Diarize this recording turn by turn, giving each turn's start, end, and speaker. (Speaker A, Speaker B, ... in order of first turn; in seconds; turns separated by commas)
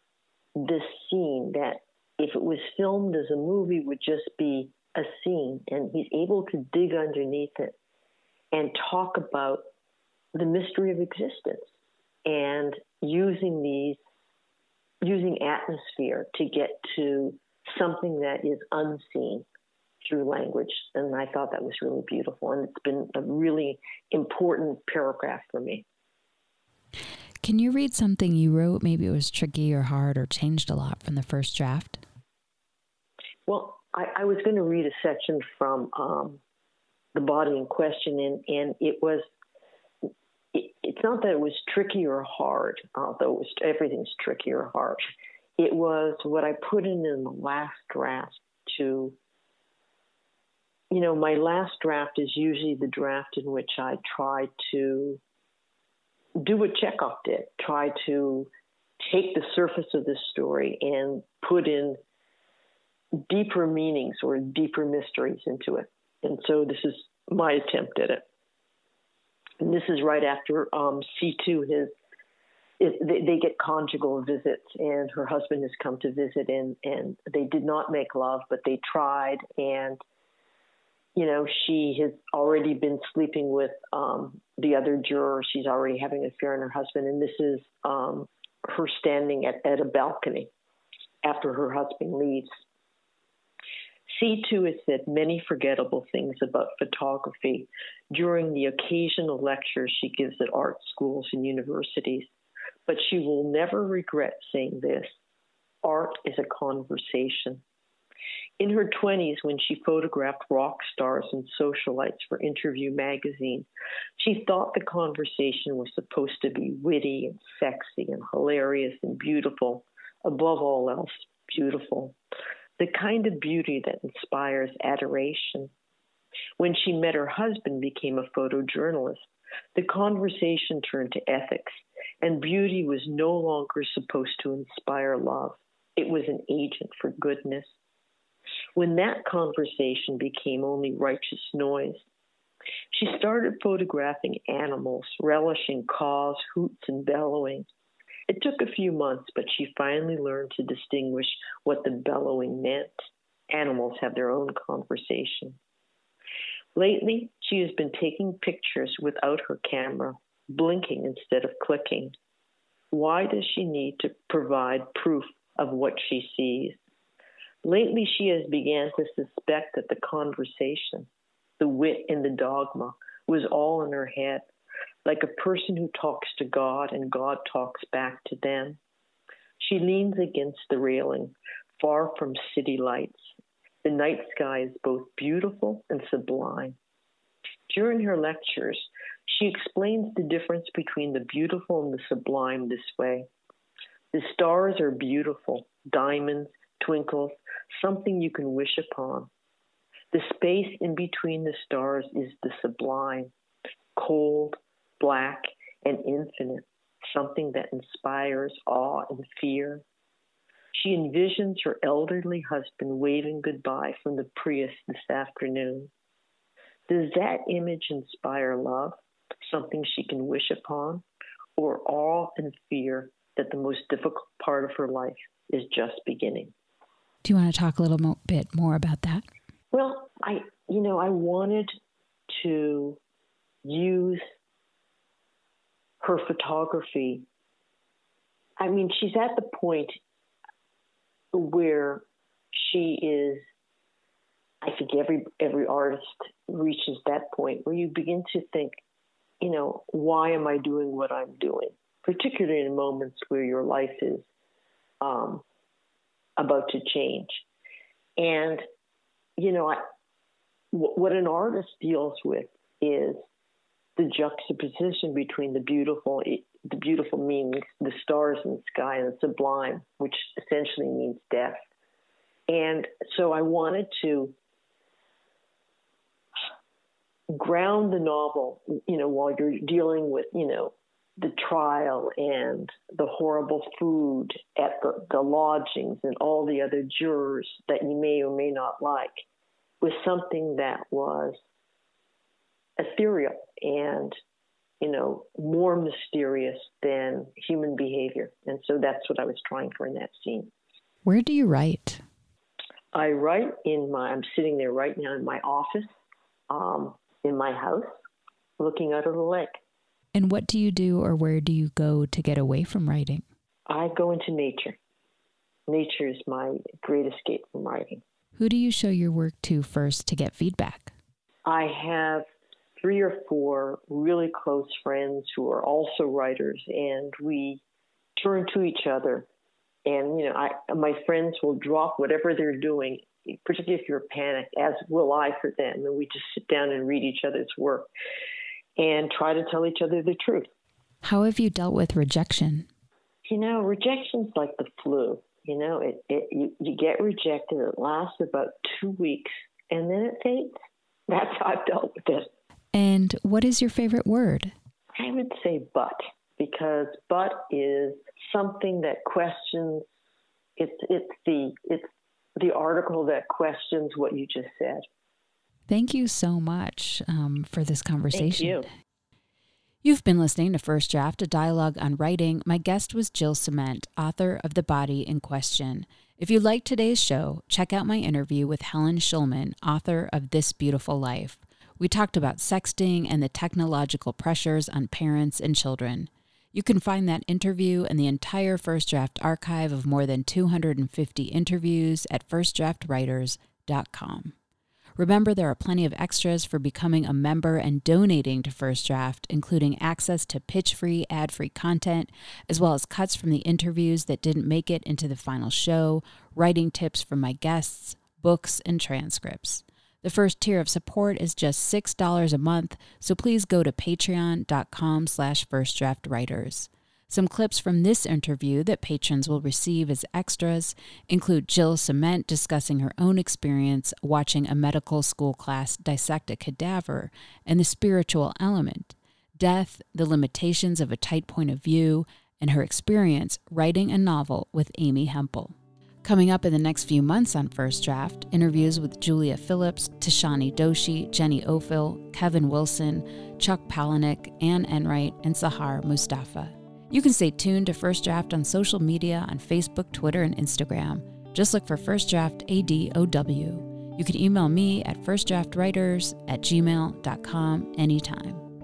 Speaker A: 0.6-7.7, Speaker A: 8.5-9.6, Speaker A: 10.3-11.6, Speaker A: 12.2-14.0, Speaker A: 15.0-19.4, Speaker A: 20.0-25.8, Speaker B: 27.4-32.0, Speaker A: 33.5-36.4, Speaker A: 37.1-39.3, Speaker A: 40.5-45.0, Speaker A: 45.6-49.2, Speaker A: 50.9-55.2, Speaker A: 56.4-58.5, Speaker A: 59.0-62.0, Speaker A: 63.2-68.2, Speaker A: 69.6-71.9, Speaker A: 72.8-80.0, Speaker A: 81.1-90.5, Speaker A: 91.2-92.6, Speaker A: 94.1-102.3, Speaker A: 102.9-105.2, Speaker A: 105.8-107.6, Speaker A: 108.6-122.2, Speaker A: 122.8-125.7, Speaker A: 126.6-137.7, Speaker A: 138.8-142.1, Speaker A: 142.9-147.7, Speaker A: 148.3-152.9, Speaker A: 153.5-155.6, Speaker A: 156.8-162.1, Speaker A: 162.9-166.8, Speaker A: 167.6-171.1, Speaker A: 171.6-174.4, Speaker A: 175.0-178.8, Speaker A: 179.6-186.8, Speaker A: 187.7-193.3, Speaker A: 194.1-199.3, Speaker A: 200.1-203.3, Speaker A: 203.9-209.8, Speaker A: 210.7-215.9, Speaker A: 216.9-221.0, Speaker A: 221.6-226.5, Speaker B: 227.2-229.2, Speaker A: 229.7-231.7, Speaker A: 232.3-233.0, Speaker A: 233.6-234.2, Speaker A: 236.0-237.2, Speaker A: 238.6-240.0, Speaker A: 241.3-243.4, Speaker A: 244.6-248.8, Speaker A: 249.4-254.3, Speaker A: 255.0-255.4, Speaker A: 256.4-257.4, Speaker A: 258.2-258.6, Speaker A: 259.4-259.8, Speaker A: 260.7-263.2, Speaker A: 264.0-271.6, Speaker A: 272.5-274.4, Speaker A: 277.3-289.2, Speaker A: 289.8-291.4, Speaker A: 292.8-294.1, Speaker A: 294.8-300.5, Speaker B: 301.0-302.0, Speaker A: 302.9-305.9, Speaker A: 306.5-308.0, Speaker A: 308.6-309.6, Speaker B: 310.1-313.2, Speaker A: 313.7-314.8, Speaker A: 315.7-318.0, Speaker B: 318.4-320.9, Speaker A: 321.4-322.2, Speaker A: 322.8-327.6, Speaker A: 328.2-329.3, Speaker A: 329.9-337.9, Speaker A: 338.8-340.5, Speaker B: 341.0-342.7, Speaker A: 343.2-350.5, Speaker A: 351.1-352.3, Speaker B: 352.7-354.5, Speaker A: 354.9-359.9, Speaker A: 360.6-364.8, Speaker B: 365.7-368.7, Speaker A: 368.1-368.7, Speaker B: 369.8-394.3, Speaker B: 395.0-458.4